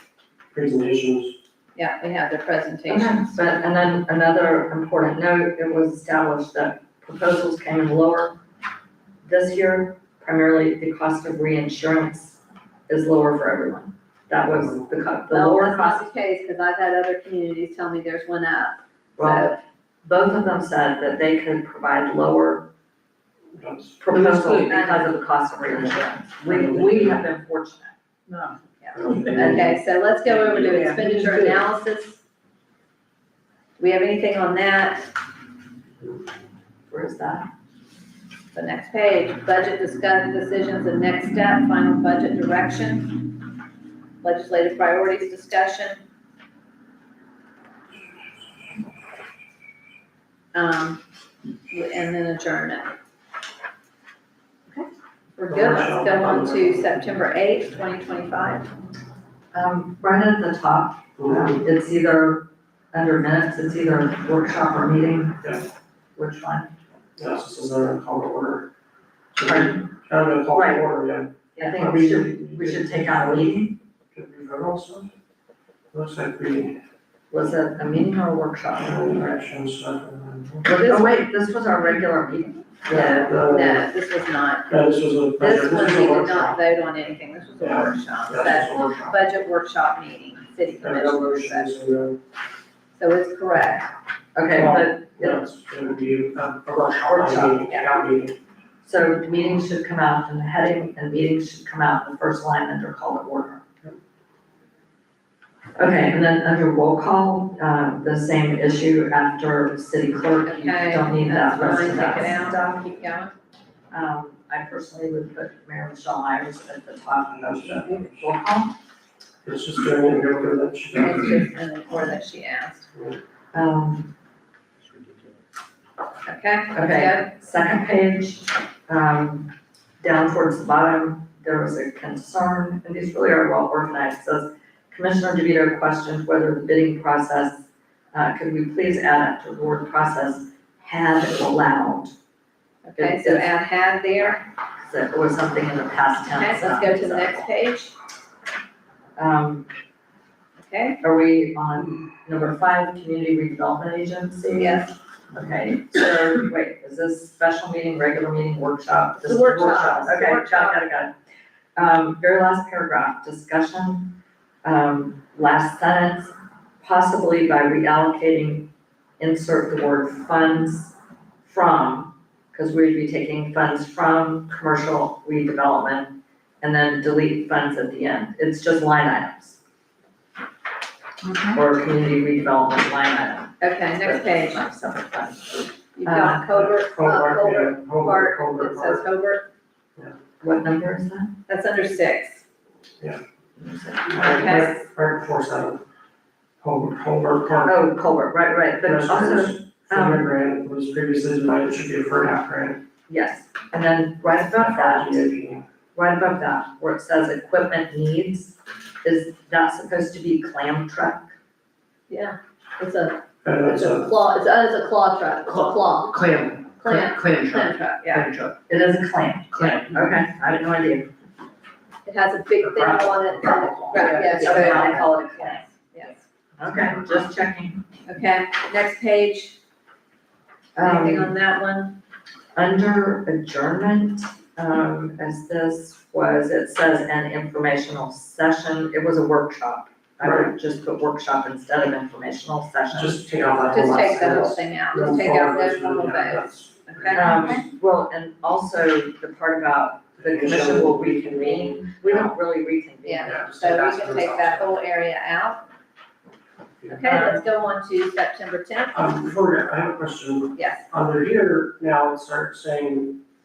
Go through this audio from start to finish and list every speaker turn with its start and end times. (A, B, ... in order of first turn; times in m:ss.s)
0:00.5-0:01.4 A
0:01.8-0:03.4 B
0:02.9-0:08.4 C
0:09.2-0:16.0 C
0:14.5-0:14.9 A
0:15.3-0:19.6 B
0:19.2-0:22.7 C
0:23.6-0:24.0 A
0:24.0-0:27.9 C
0:24.1-0:25.0 D
0:26.5-0:27.1 A
0:28.3-0:29.6 D
0:28.8-0:32.2 B
0:29.0-0:29.7 A
0:30.3-0:31.6 D
0:33.8-0:35.1 B
0:36.9-0:37.5 C
0:38.5-0:43.3 B
0:44.2-0:46.0 B
0:50.5-0:51.0 B
0:51.7-0:53.0 B
0:54.7-0:58.7 B
0:55.5-0:57.3 A
0:59.5-1:06.7 C
1:01.2-1:01.6 A
1:07.2-1:08.7 A
1:09.4-1:13.6 A
1:09.4-1:09.9 C
1:10.5-1:10.8 C
1:11.6-1:13.8 C
1:14.1-1:15.1 A
1:15.9-1:16.8 A
1:17.3-1:19.4 C
1:18.8-1:20.8 A
1:20.6-1:23.2 C
1:22.9-1:23.9 A
1:22.9-1:24.7 B
1:24.7-1:26.6 A
1:25.4-1:31.7 B
1:27.6-1:29.2 A
1:30.8-1:32.2 A
1:33.0-1:33.9 B
1:34.4-1:35.4 C
1:34.5-1:38.4 A
1:36.7-1:37.7 C
1:37.7-1:38.0 B
1:38.8-1:43.7 C
1:45.8-1:52.8 C
1:50.4-1:53.3 B
1:53.9-1:58.7 C
1:57.3-1:58.3 A
1:59.4-2:01.5 A
2:00.9-2:02.9 B
2:03.5-2:04.1 C
2:06.3-2:07.3 B
2:06.7-2:09.5 C
2:10.0-2:22.1 C
2:22.8-2:24.4 B
2:23.0-2:23.5 C
2:24.8-2:27.5 C
2:26.3-2:27.9 B
2:29.2-2:29.7 C
2:30.6-2:31.0 B
2:31.0-2:41.1 C
2:34.6-2:34.9 B
2:39.2-2:40.8 B
2:41.8-2:44.1 C
2:44.6-2:59.6 C
3:01.2-3:01.6 D
3:01.5-3:06.4 C
3:03.6-3:04.6 B
3:06.0-3:09.5 B
3:06.5-3:09.1 A
3:10.4-3:11.3 C
3:11.5-3:12.4 B
3:13.6-3:14.4 C
3:14.1-3:15.8 A
3:14.2-3:14.8 B
3:16.6-3:17.8 A
3:17.6-3:20.3 C
3:18.8-3:22.8 A
3:23.1-3:25.3 C
3:24.2-3:25.7 A
3:26.0-3:31.3 C
3:32.1-3:38.3 B
3:33.4-3:34.1 A
3:35.5-3:38.6 D
3:38.7-3:41.1 C
3:39.5-3:40.1 D
3:42.0-3:46.2 B
3:42.6-3:44.4 A
3:43.9-3:45.0 D
3:44.0-3:45.6 C
3:46.6-3:47.8 C
3:48.1-3:49.6 B
3:50.8-3:51.4 C
3:50.8-3:52.0 B
3:52.6-4:03.2 C
4:00.2-4:00.5 A
4:02.9-4:07.4 A
4:03.7-4:07.6 B
4:07.1-4:13.3 C
4:10.2-4:12.3 A
4:13.0-4:15.6 B
4:13.2-4:14.8 A
4:16.8-4:17.4 A
4:16.9-4:19.0 B
4:18.9-4:23.2 A
4:20.6-4:20.8 B